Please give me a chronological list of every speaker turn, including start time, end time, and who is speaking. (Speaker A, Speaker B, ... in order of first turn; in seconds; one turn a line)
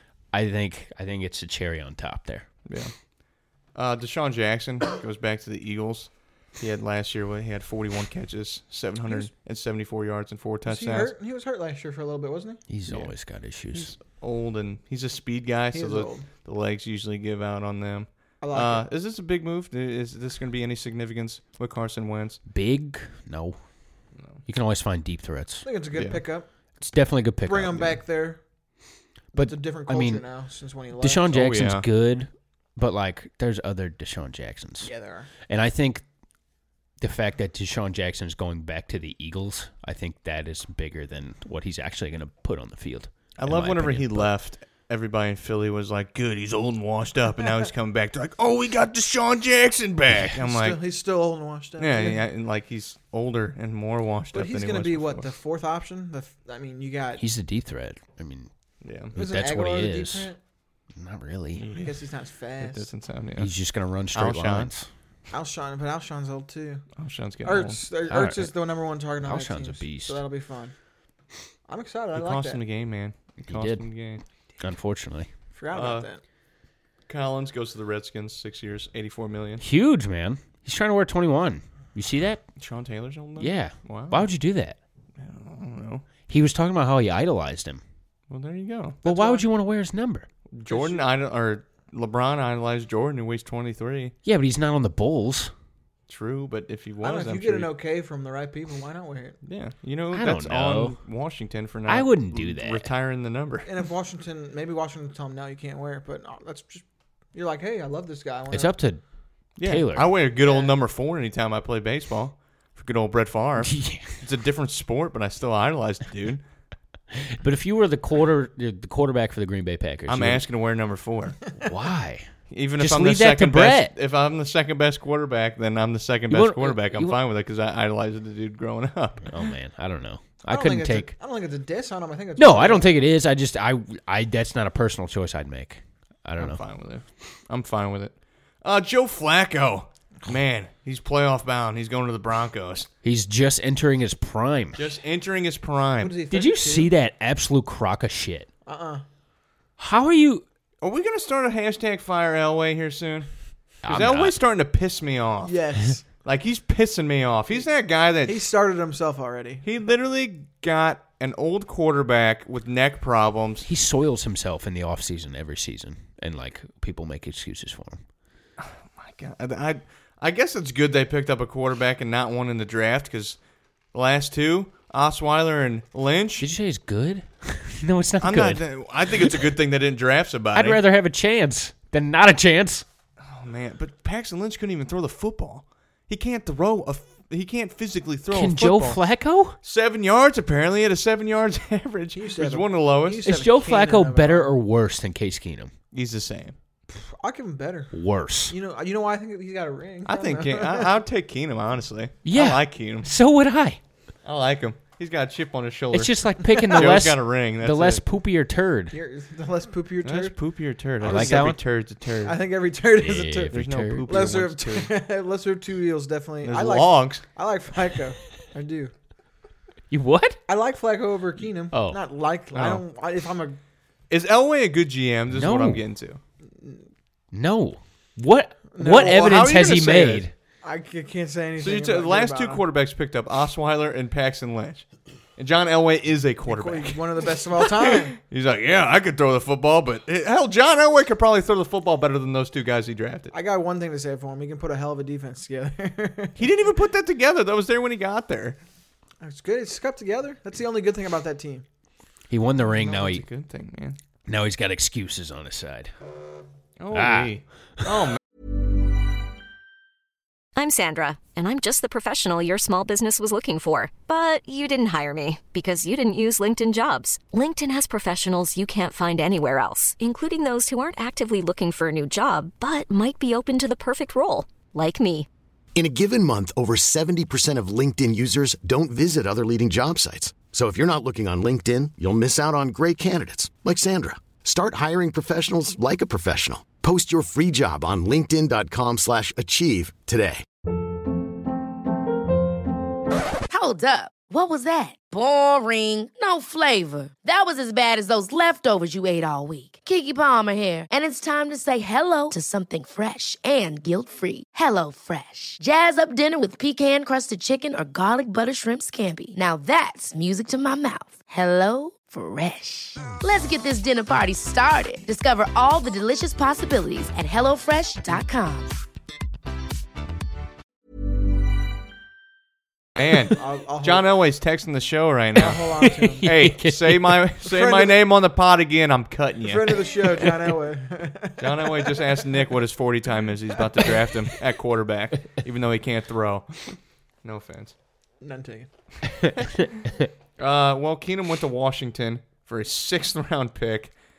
Speaker A: 0.3-2.5
Speaker B: 2.7-2.9
Speaker B: 3.7-11.1
Speaker C: 9.1-9.3
Speaker C: 10.7-12.6
Speaker A: 12.7-13.9
Speaker B: 12.9-22.4
Speaker C: 15.7-16.3
Speaker C: 18.4-18.9
Speaker A: 22.5-23.6
Speaker B: 24.2-24.4
Speaker A: 24.5-25.7
Speaker C: 25.6-26.5
Speaker B: 25.9-26.2
Speaker A: 26.8-28.0
Speaker C: 27.4-28.4
Speaker A: 29.3-30.2
Speaker C: 29.3-31.4
Speaker A: 31.0-34.9
Speaker B: 31.3-31.9
Speaker C: 34.8-35.3
Speaker A: 35.5-36.0
Speaker A: 37.0-44.3
Speaker B: 43.4-50.8
Speaker C: 50.3-52.3
Speaker B: 51.8-55.3
Speaker C: 54.3-57.2
Speaker A: 57.2-58.5
Speaker B: 58.8-59.1
Speaker A: 59.1-60.3
Speaker C: 59.1-60.4
Speaker A: 61.0-61.7
Speaker B: 61.6-62.0
Speaker C: 61.8-62.9
Speaker B: 62.6-63.5
Speaker A: 63.4-64.9
Speaker B: 64.1-64.7
Speaker C: 65.3-66.8
Speaker B: 67.0-67.8
Speaker C: 67.4-70.7
Speaker A: 68.1-68.5
Speaker A: 69.2-70.2
Speaker C: 71.7-72.6
Speaker B: 72.1-74.2
Speaker A: 73.5-73.8
Speaker A: 74.6-75.3
Speaker C: 75.5-76.2
Speaker B: 75.7-76.1
Speaker B: 77.1-79.6
Speaker A: 79.6-82.4
Speaker B: 82.6-84.3
Speaker A: 83.4-84.8
Speaker B: 85.2-86.0
Speaker A: 86.3-87.8
Speaker B: 88.3-89.0
Speaker C: 89.0-89.4
Speaker A: 89.0-90.3
Speaker B: 90.5-94.2
Speaker C: 90.7-91.1
Speaker A: 94.2-95.5
Speaker B: 96.1-97.7
Speaker C: 97.0-99.4
Speaker B: 99.4-103.7
Speaker A: 100.1-101.0
Speaker A: 101.9-102.9
Speaker C: 103.7-108.7
Speaker A: 108.5-109.0
Speaker A: 109.6-110.1
Speaker B: 109.6-116.4
Speaker C: 110.4-110.7
Speaker A: 113.6-114.1
Speaker A: 117.1-120.5
Speaker B: 120.1-121.5
Speaker A: 121.6-123.9
Speaker B: 122.5-129.4
Speaker A: 126.3-127.2
Speaker A: 129.3-131.1
Speaker C: 130.5-132.9
Speaker A: 132.4-136.6
Speaker B: 136.4-142.9
Speaker A: 143.0-144.9
Speaker B: 144.8-146.2
Speaker C: 146.0-146.9
Speaker A: 146.3-148.5
Speaker C: 148.7-149.0
Speaker A: 149.8-150.4
Speaker B: 150.8-153.3
Speaker A: 153.8-154.3
Speaker B: 153.8-158.5
Speaker C: 155.4-156.0
Speaker C: 158.2-159.7
Speaker B: 159.6-163.7
Speaker A: 163.6-168.0
Speaker B: 168.6-173.4
Speaker B: 173.9-176.5
Speaker A: 176.4-179.4
Speaker B: 178.2-180.8
Speaker A: 180.5-182.8
Speaker B: 183.2-189.0
Speaker A: 188.3-189.6
Speaker B: 189.6-193.3
Speaker C: 192.2-194.6
Speaker A: 193.2-195.7
Speaker B: 195.9-196.6
Speaker C: 196.9-198.0
Speaker A: 197.9-198.6
Speaker C: 198.5-200.9
Speaker B: 200.1-203.1
Speaker A: 202.2-203.8
Speaker B: 204.2-208.0
Speaker A: 205.9-208.9
Speaker C: 208.9-210.3
Speaker B: 210.0-212.4
Speaker A: 211.0-211.6
Speaker C: 212.2-218.9
Speaker A: 213.0-214.2
Speaker B: 213.5-214.9
Speaker B: 216.4-217.2
Speaker A: 219.9-220.4
Speaker C: 220.5-223.6
Speaker A: 221.7-222.0
Speaker B: 222.5-222.8
Speaker B: 224.1-226.2
Speaker A: 225.3-225.8
Speaker C: 226.6-226.9
Speaker A: 227.3-230.3
Speaker C: 228.7-229.5
Speaker B: 229.0-230.3
Speaker C: 230.6-232.6
Speaker B: 231.6-234.9
Speaker B: 235.4-243.3
Speaker C: 236.5-238.2
Speaker C: 243.3-246.6
Speaker B: 246.4-248.6
Speaker C: 249.2-251.7
Speaker A: 252.3-253.2
Speaker B: 252.7-254.0
Speaker A: 254.3-255.9
Speaker B: 256.8-258.2
Speaker A: 256.9-257.9
Speaker D: 260.6-275.3
Speaker E: 275.8-290.4
Speaker F: 293.5-318.7
Speaker B: 323.0-329.9
Speaker C: 323.3-324.1
Speaker C: 325.4-326.2
Speaker A: 325.9-327.2
Speaker C: 327.4-328.0
Speaker C: 329.4-332.1
Speaker B: 331.4-337.8
Speaker C: 338.2-338.7
Speaker B: 340.4-344.0